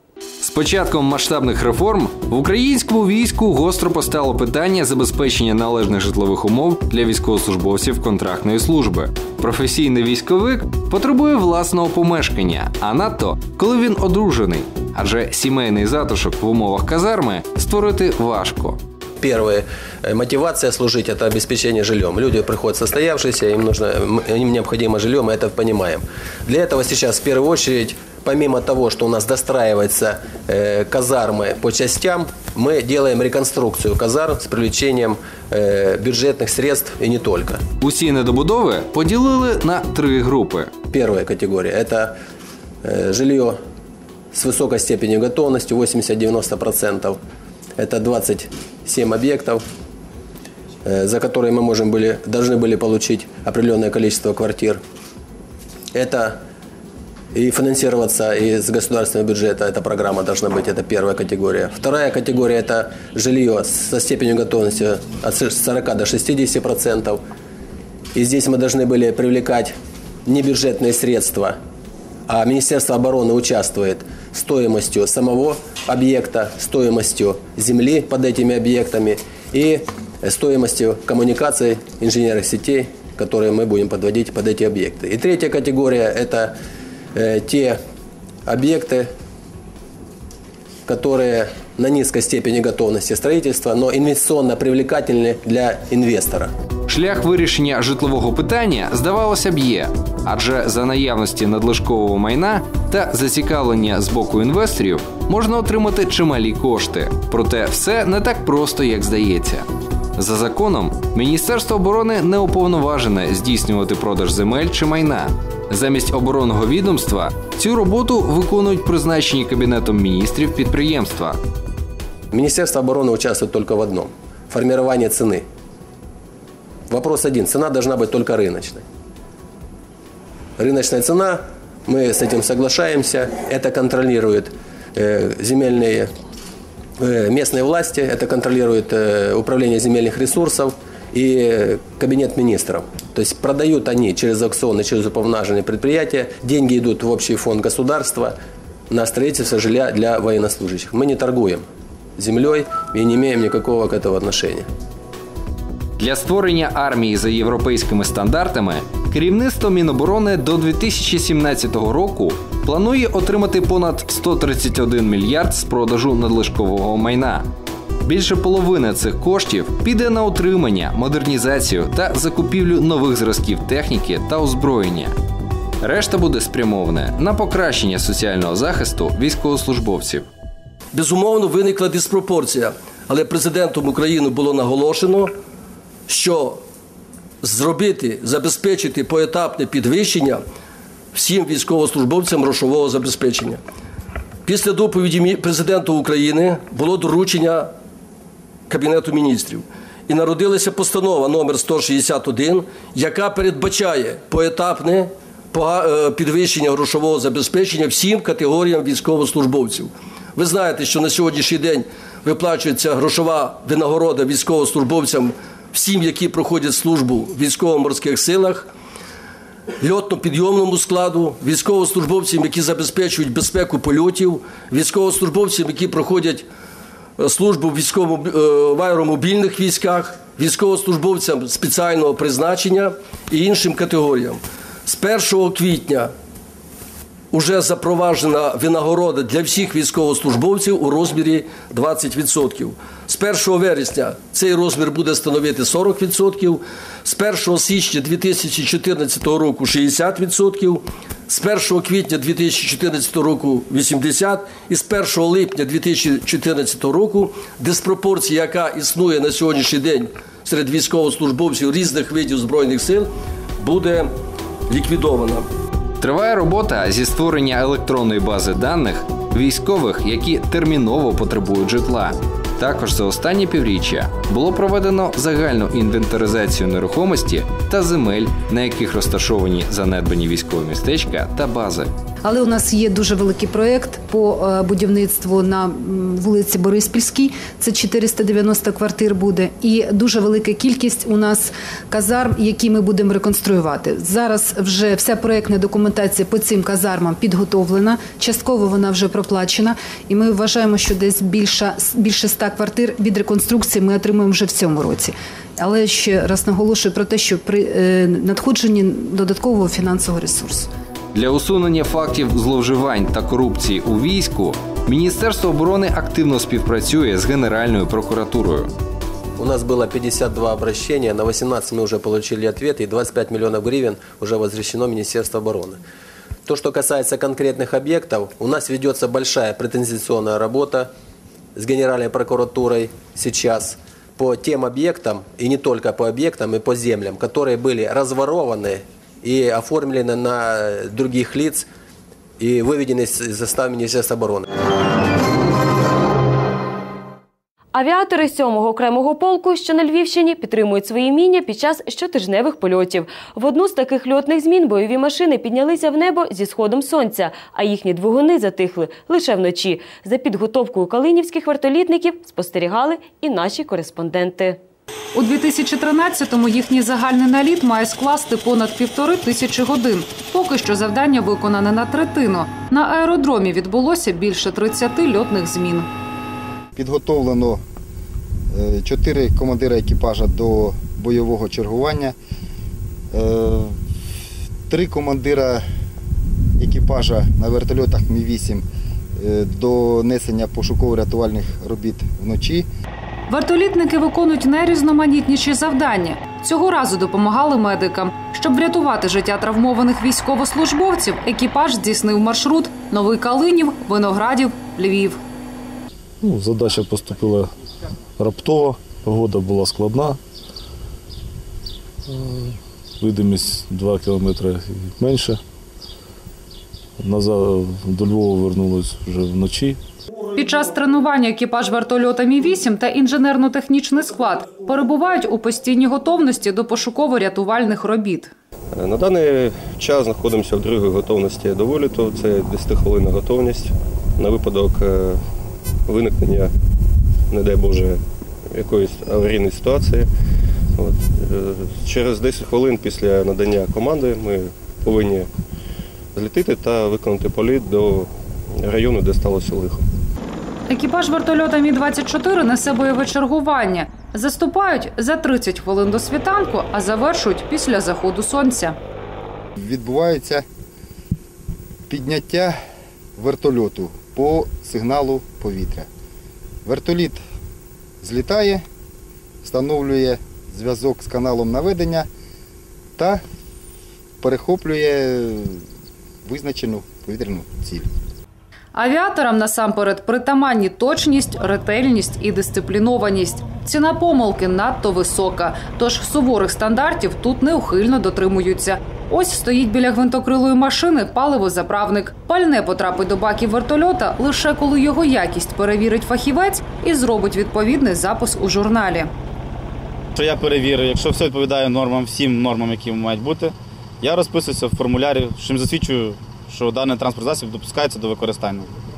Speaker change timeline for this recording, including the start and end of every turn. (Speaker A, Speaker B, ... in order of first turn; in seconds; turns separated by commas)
Speaker A: 0.4-18.8, Speaker B: 19.2-37.6, Speaker A: 37.8-40.7, Speaker B: 40.9-42.1, Speaker B: 42.8-43.6, Speaker B: 44.3-47.2, Speaker B: 47.8-49.6, Speaker B: 50.9-54.8, Speaker B: 55.9-56.4, Speaker B: 57.3-67.2, Speaker B: 68.2-69.7, Speaker B: 70.3-71.6, Speaker B: 72.3-86.5, Speaker B: 87.2-87.8, Speaker B: 88.5-89.1, Speaker B: 90.9-96.5, Speaker A: 96.9-121.4, Speaker B: 122.3-125.5, Speaker B: 126.9-128.8, Speaker B: 130.6-136.1, Speaker B: 137.0-148.3, Speaker B: 148.9-151.7, Speaker B: 152.2-154.7, Speaker A: 156.0-167.5, Speaker A: 168.0-175.2, Speaker A: 175.8-180.3, Speaker C: 180.9-185.3, Speaker C: 186.1-186.6, Speaker C: 187.4-190.4, Speaker C: 191.1-193.6, Speaker C: 194.5-197.7, Speaker C: 198.7-218.7, Speaker C: 219.8-226.5, Speaker C: 227.2-236.1, Speaker C: 237.3-263.1, Speaker C: 263.6-264.1, Speaker C: 264.7-265.5, Speaker A: 266.0-281.9, Speaker D: 282.2-310.7, Speaker A: 311.1-318.7, Speaker B: 319.4-325.8, Speaker B: 326.5-330.9, Speaker B: 331.6-341.7, Speaker B: 342.4-344.5, Speaker E: 347.7-364.6, Speaker F: 365.1-375.9, Speaker G: 376.7-377.6, Speaker G: 378.5-382.2, Speaker G: 383.1-383.8, Speaker G: 384.7-385.6, Speaker G: 386.6-388.6, Speaker G: 389.2-392.7, Speaker F: 393.3-405.2, Speaker H: 406.2-407.5, Speaker H: 408.2-410.2, Speaker H: 412.1-415.4, Speaker H: 417.0-419.8, Speaker F: 420.4-428.3, Speaker I: 428.8-435.2, Speaker I: 435.9-436.5, Speaker I: 437.3-440.1, Speaker I: 440.8-445.3, Speaker I: 446.1-449.8, Speaker F: 450.7-458.8, Speaker G: 459.6-460.4, Speaker G: 461.9-462.6, Speaker G: 463.2-465.9, Speaker G: 466.6-467.2, Speaker G: 468.0-468.6, Speaker G: 469.4-472.1, Speaker G: 473.0-473.2, Speaker G: 474.2-475.7, Speaker G: 476.2-477.9, Speaker F: 478.8-499.1, Speaker J: 500.1-508.7